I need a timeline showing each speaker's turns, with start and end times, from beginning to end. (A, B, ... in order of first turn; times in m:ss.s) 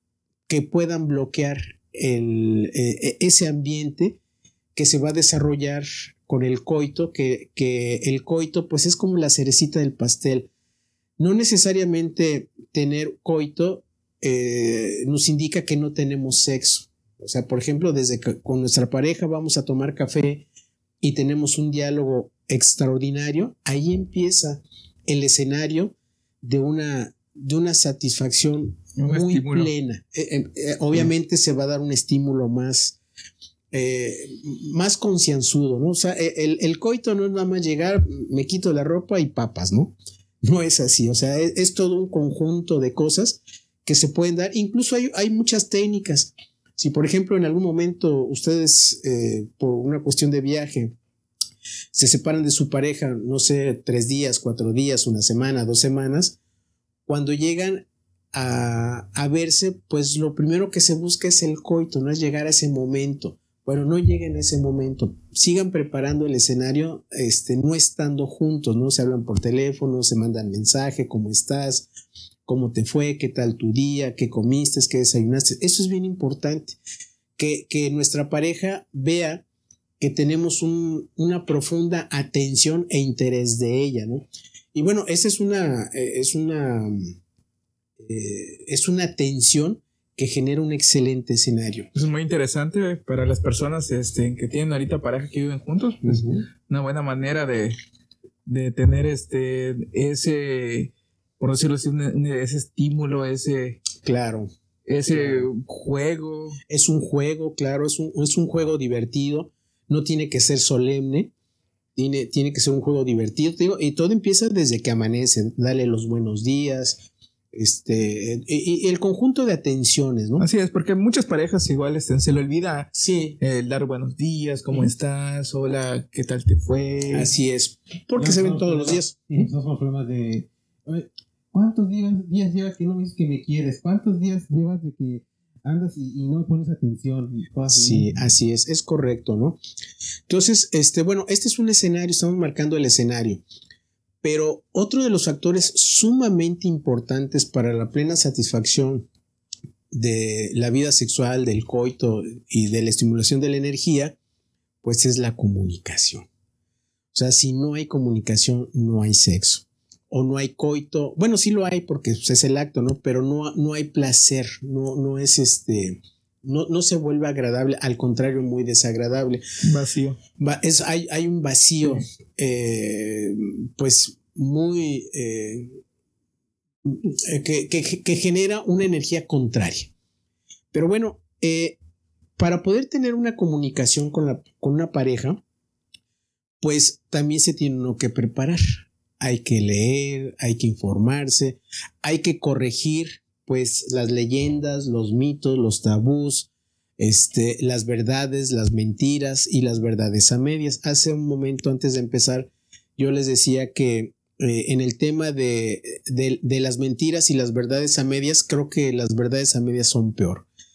0:00.5-0:04.2 A
0:04.8-0:10.5 A
0:11.2-0:20.4 A
0:21.0-0:33.0 A
0:29.0-0:29.7 B
0:33.7-0:51.0 A
0:51.9-0:56.4 A
0:57.1-1:11.9 A
1:12.5-1:16.8 A
1:17.4-1:19.4 A
1:20.0-1:27.2 A
1:28.0-1:31.9 A
1:31.9-1:37.8 B
1:36.0-1:36.4 A
1:38.5-1:43.8 B
1:44.0-1:44.5 A
1:44.9-1:46.6 B
1:45.1-1:45.5 A
1:46.7-1:51.3 A
1:52.0-2:00.5 A
2:00.4-2:07.3 B
2:03.0-2:03.4 A
2:06.7-2:09.5 A
2:08.2-2:18.2 C
2:17.7-2:19.6 A
2:20.3-2:23.4 A
2:24.2-2:29.1 A
2:29.9-2:34.2 A
2:34.8-2:36.3 A
2:37.1-2:49.4 A
2:49.6-2:50.2 B
2:50.4-2:55.8 A
2:56.9-2:59.9 A
3:00.7-3:01.8 A
3:02.4-3:05.4 A
3:06.6-3:16.5 A
3:17.0-3:30.4 A